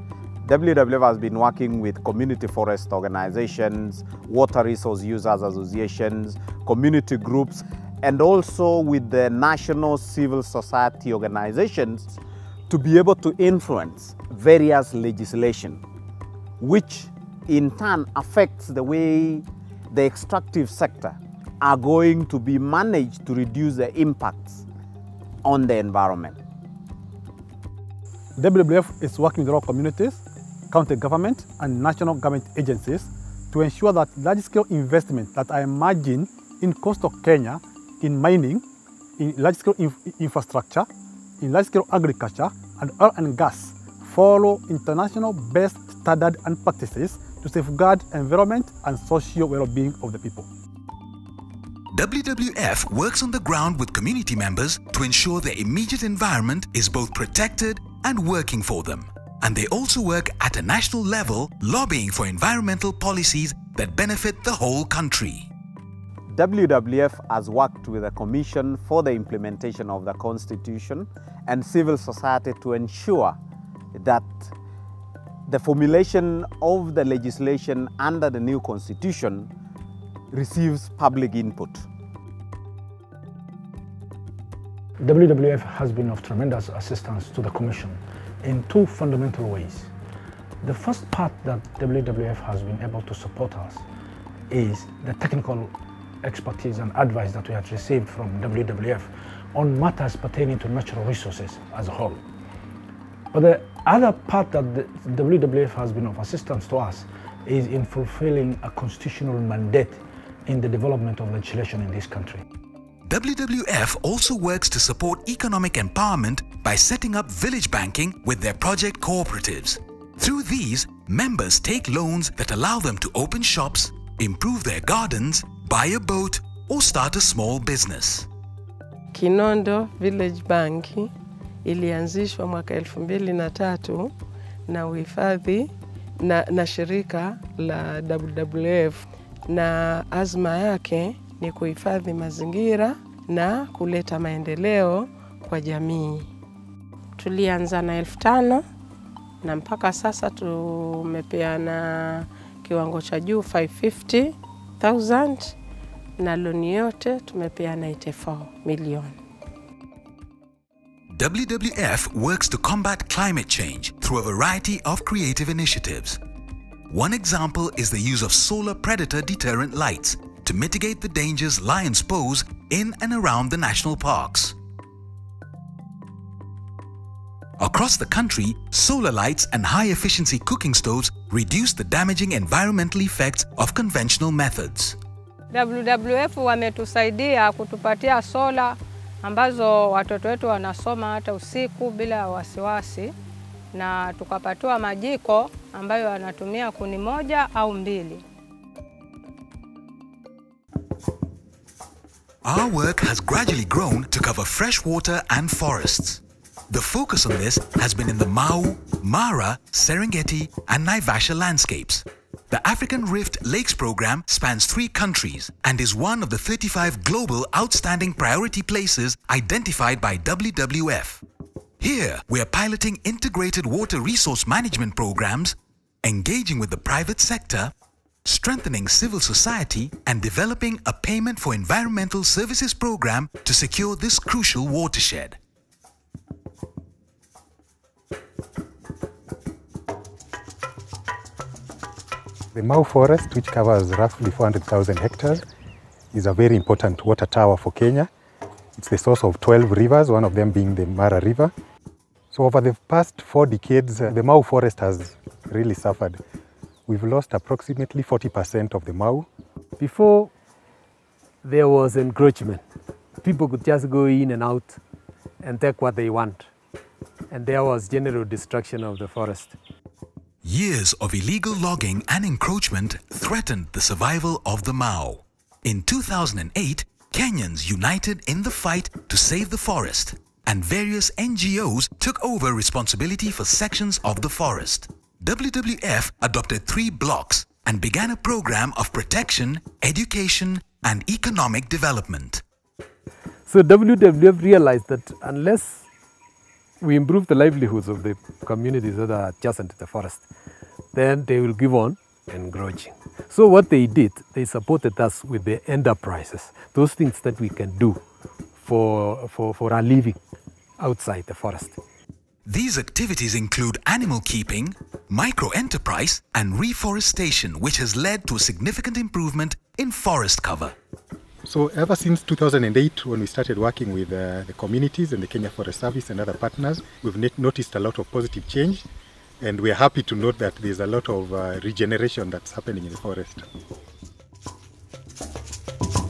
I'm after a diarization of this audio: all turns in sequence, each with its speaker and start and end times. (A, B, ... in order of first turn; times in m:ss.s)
0:00.4-0:15.8 A
0:16.6-0:24.6 A
0:25.4-0:26.4 A
0:28.4-0:38.6 B
0:39.2-0:40.9 B
0:41.4-0:50.5 B
0:51.9-1:05.5 C
1:06.3-1:13.4 A
1:13.9-1:14.5 A
1:15.5-1:19.5 A
1:20.3-1:21.9 A
1:25.0-1:29.9 D
1:30.6-1:33.8 D
1:34.5-1:42.2 D
1:43.3-1:52.4 D
1:53.0-2:08.3 C
2:09.1-2:11.1 E
2:11.6-2:14.1 E
2:14.7-2:26.3 E
2:27.2-2:28.6 E
2:29.4-2:35.6 E
2:36.2-2:39.1 E
2:41.1-2:46.2 C
2:46.9-2:54.6 C
2:57.6-3:05.0 C
3:05.5-3:13.1 F
3:13.7-3:18.2 F
3:22.4-3:41.2 C
3:41.8-3:47.7 C
3:48.2-3:55.4 C
4:04.6-4:05.1 G
4:06.3-4:08.0 G
4:09.0-4:11.2 G
4:13.0-4:14.9 G
4:15.6-4:16.0 G
4:17.3-4:19.0 G
4:19.8-4:20.3 H
4:21.4-4:22.6 H
4:23.2-4:24.8 H
4:25.4-4:26.5 H
4:27.3-4:29.6 H
4:30.4-4:52.4 C
4:53.5-4:55.8 H
4:56.8-5:00.2 H
5:00.9-5:08.0 H
5:08.6-5:10.2 H
5:10.8-5:11.8 H
5:12.4-5:20.8 C
5:21.7-5:23.4 G
5:24.8-5:26.0 G
5:29.6-5:32.2 G